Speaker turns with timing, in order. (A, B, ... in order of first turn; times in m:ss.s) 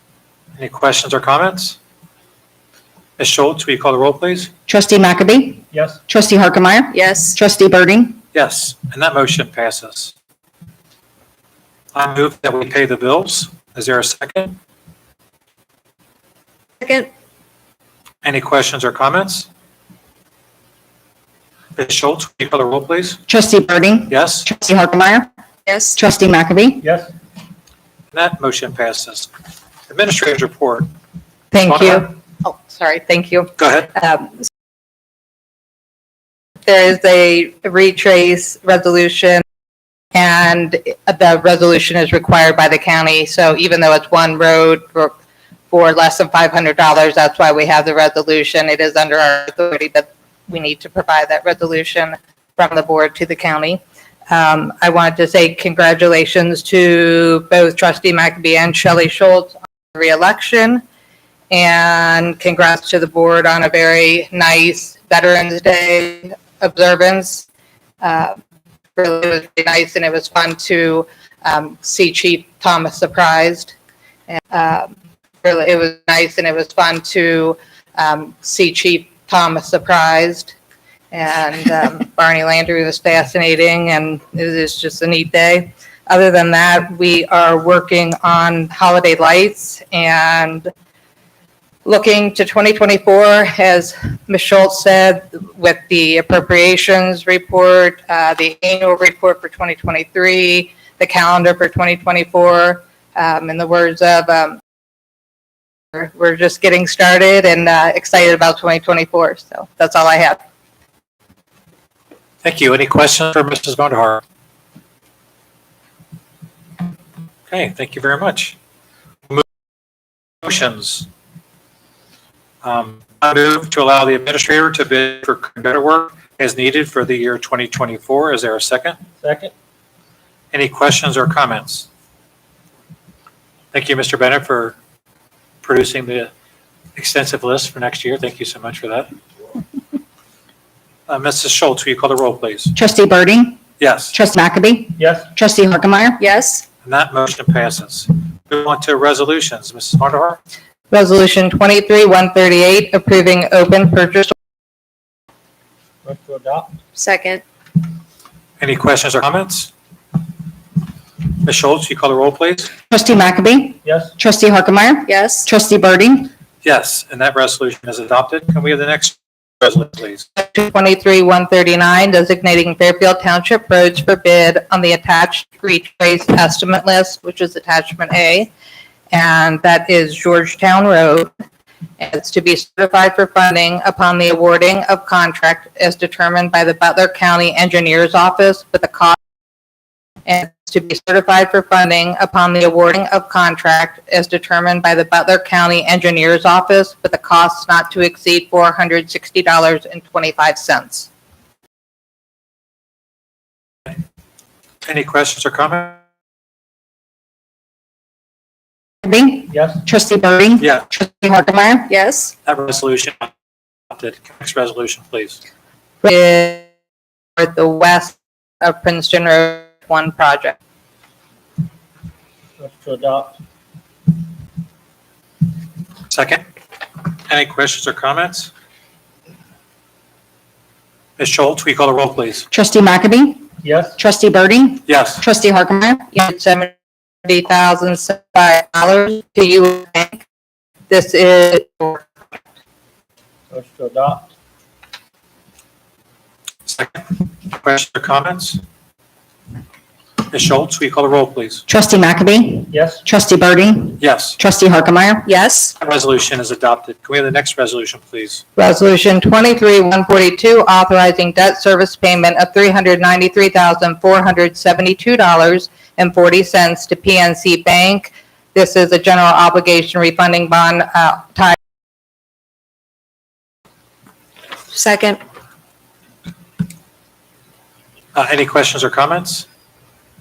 0:00.6-0:01.8 A
0:03.2-0:04.5 A
0:04.7-0:08.2 B
0:05.7-0:06.0 C
0:06.9-0:07.4 D
0:08.3-0:10.1 A
0:11.9-0:14.6 A
0:16.8-0:17.1 D
0:18.2-0:19.5 A
0:21.8-0:23.2 A
0:23.3-0:25.3 B
0:24.1-0:24.5 A
0:25.7-0:26.0 D
0:26.0-0:26.8 B
0:26.8-0:27.1 C
0:28.1-0:29.3 A
0:29.9-0:30.9 A
0:31.5-0:34.4 E
0:31.7-0:32.1 A
0:33.6-0:33.9 A
0:36.6-0:39.4 E
0:40.1-0:45.1 E
0:45.7-1:00.8 E
1:01.5-1:07.4 E
1:08.0-1:08.4 E
1:09.0-1:13.7 E
1:14.3-1:20.5 E
1:21.1-1:30.7 E
1:31.8-1:44.6 E
1:45.9-1:50.4 E
1:52.4-1:54.2 A
1:57.5-1:58.6 A
2:00.4-2:01.1 A
2:02.6-2:09.0 A
2:09.2-2:09.5 C
2:10.5-2:11.9 A
2:13.7-2:14.8 A
2:15.6-2:16.3 A
2:17.0-2:19.1 A
2:21.1-2:22.8 A
2:22.8-2:23.6 B
2:23.8-2:24.1 A
2:24.1-2:26.2 B
2:25.0-2:25.2 C
2:26.2-2:26.6 D
2:26.8-2:30.4 A
2:30.9-2:34.3 E
2:36.0-2:36.8 C
2:37.0-2:37.4 D
2:38.6-2:39.7 A
2:41.4-2:42.7 A
2:42.9-2:46.3 B
2:43.8-2:44.1 C
2:45.1-2:45.5 D
2:46.6-2:50.2 A
2:50.4-2:58.5 E
2:59.1-3:01.3 E
3:02.0-3:09.2 E
3:10.2-3:21.1 E
3:24.8-3:26.0 A
3:29.0-3:31.9 B
3:29.5-3:29.8 C
3:31.9-3:32.3 D
3:32.4-3:33.3 A
3:33.9-3:35.4 A
3:36.0-3:36.6 E
3:37.4-3:40.6 E
3:42.6-3:43.3 C
3:46.1-3:46.4 A
3:47.3-3:48.5 A
3:51.2-3:52.5 A
3:52.5-3:56.0 B
3:53.6-3:54.0 C
3:54.8-3:55.2 A
3:56.1-3:56.7 E
3:57.2-4:00.2 E
4:00.9-4:02.0 E
4:03.5-4:04.3 C
4:06.7-4:08.6 A
4:10.3-4:11.6 A
4:11.7-4:15.3 B
4:12.7-4:13.0 C
4:14.0-4:14.4 A
4:15.4-4:15.7 D
4:15.8-4:18.4 A
4:18.6-4:31.6 E
4:34.7-4:35.2 D
4:38.1-4:39.5 A